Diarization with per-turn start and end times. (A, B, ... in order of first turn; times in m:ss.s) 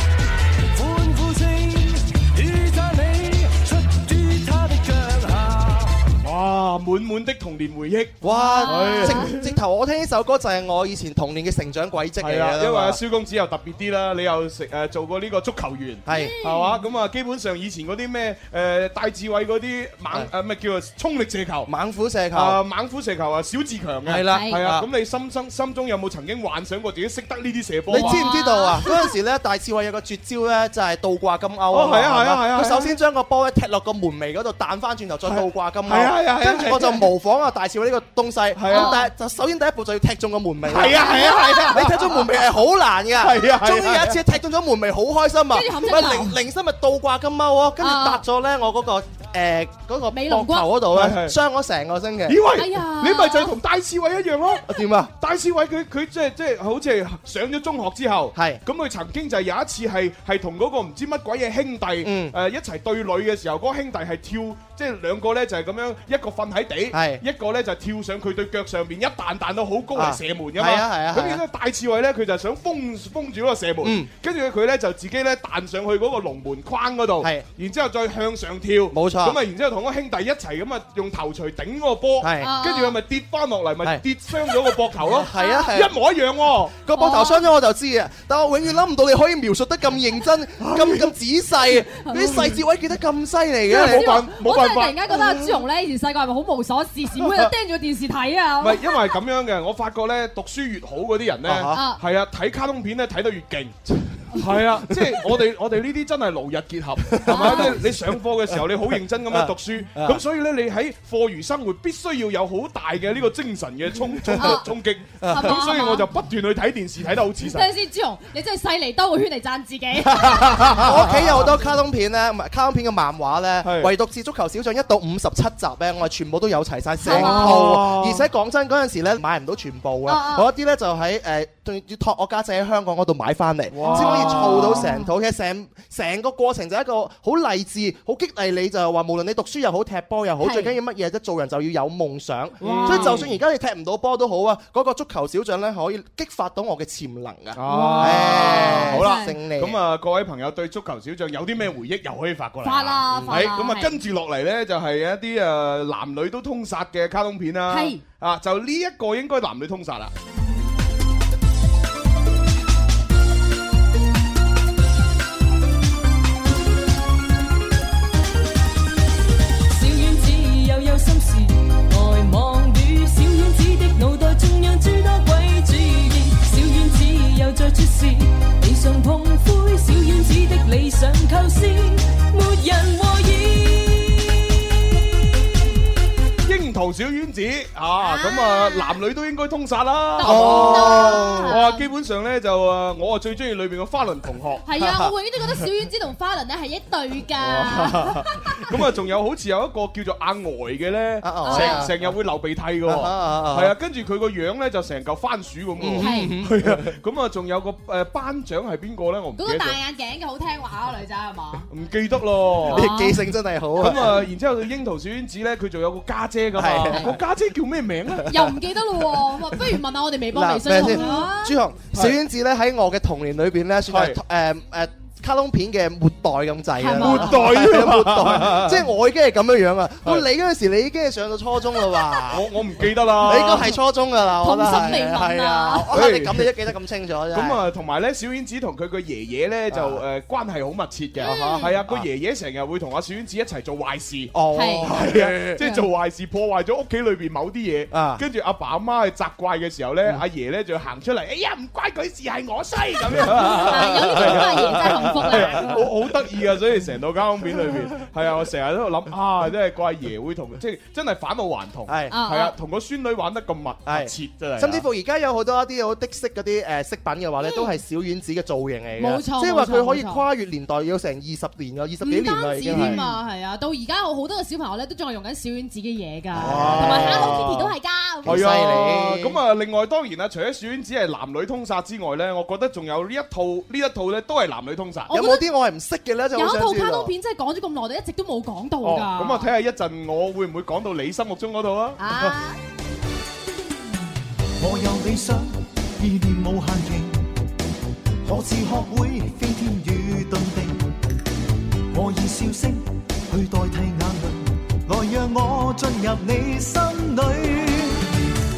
0:00.7-0:05.9 A
0:06.2-0:09.5 B
0:08.2-0:13.0 C
0:08.2-0:09.3 D
0:12.2-0:21.7 B
0:16.0-0:16.4 C
0:16.1-0:16.8 D
0:21.6-0:22.6 C
0:22.3-0:28.2 B
0:24.0-0:24.8 C
0:24.3-0:24.6 D
0:27.9-0:52.4 C
0:27.9-0:29.0 D
0:31.7-0:32.9 B
0:35.3-0:37.1 B
0:38.6-0:39.0 B
0:38.7-0:39.0 D
0:40.6-0:42.3 B
0:41.0-0:41.7 D
0:43.2-0:44.2 B
0:45.5-0:46.4 D
0:47.8-0:48.2 D
0:50.1-0:50.7 D
0:50.9-0:51.4 B
0:52.3-0:54.6 B
0:52.5-0:53.5 D
0:54.6-0:55.1 C
0:55.2-1:26.8 B
0:58.3-0:58.6 C
1:02.0-1:02.3 C
1:06.9-1:07.2 C
1:09.9-1:11.4 C
1:13.8-1:14.1 C
1:18.9-1:19.4 C
1:22.2-1:22.5 C
1:22.4-1:23.0 D
1:25.0-1:25.9 C
1:25.3-1:25.7 D
1:26.8-1:34.2 C
1:26.9-1:27.5 D
1:30.6-1:31.1 B
1:32.0-1:32.5 D
1:33.7-1:39.0 D
1:33.7-1:35.6 B
1:38.6-1:43.8 B
1:41.4-1:41.8 C
1:41.7-1:42.0 D
1:44.3-1:57.7 B
1:47.1-1:47.9 C
1:47.3-1:47.8 D
1:49.3-1:50.2 C
1:54.4-1:54.7 D
1:55.2-1:55.6 C
1:55.3-1:56.0 D
1:57.4-2:01.0 D
2:00.7-2:29.8 C
2:03.6-2:03.9 B
2:07.0-2:07.6 D
2:07.0-2:08.2 B
2:10.1-2:10.5 D
2:13.7-2:14.9 B
2:13.8-2:15.1 D
2:20.4-2:20.7 D
2:22.6-2:23.2 D
2:22.6-2:23.3 B
2:27.5-2:40.1 B
2:27.7-2:29.3 D
2:32.6-2:33.9 D
2:33.3-2:33.6 C
2:37.7-2:38.0 D
2:49.7-3:04.3 E
3:06.4-3:14.6 B
3:08.0-3:09.0 D
3:10.2-3:11.8 D
3:10.2-3:11.6 C
3:14.6-3:18.6 D
3:17.4-3:29.8 B
3:21.2-3:22.0 C
3:21.4-3:21.9 D
3:22.8-3:23.7 C
3:25.8-3:26.9 C
3:26.0-3:26.3 D
3:29.4-3:31.6 D
3:31.7-3:32.9 B
3:32.7-3:34.2 C
3:32.7-3:33.2 D
3:33.8-3:38.4 B
3:36.6-3:37.2 C
3:36.9-3:37.2 D
3:38.3-3:41.6 D
3:40.3-3:52.5 C
3:40.8-3:41.1 B
3:43.9-3:44.2 B
3:46.8-3:47.5 D
3:47.0-3:48.9 B
3:52.3-3:53.7 B
3:53.1-3:57.6 C
3:54.4-3:55.9 D
3:55.9-3:56.5 B
3:57.3-4:04.3 B
3:59.7-4:00.0 C
4:01.2-4:02.0 C
4:01.2-4:01.7 D
4:04.3-4:05.6 C
4:04.5-4:04.9 D
4:04.8-4:24.8 B
4:05.6-4:05.8 D
4:07.9-4:08.2 C
4:13.3-4:15.6 C
4:13.4-4:15.8 D
4:21.9-4:22.1 C
4:22.1-4:22.5 D
4:23.8-4:33.0 C
4:27.4-4:27.7 D
4:29.0-4:30.2 D
4:32.0-4:38.5 D
4:32.7-4:33.1 B
4:36.3-4:37.5 C
4:36.4-4:37.7 B
4:38.2-4:39.4 C
4:38.2-4:45.1 B
4:45.1-4:45.4 D
4:45.1-4:47.1 C
4:46.3-4:49.5 D
4:48.8-4:52.4 B
4:52.0-4:52.6 D
4:54.6-4:57.2 A
4:58.2-5:00.9 A
5:01.9-5:08.0 A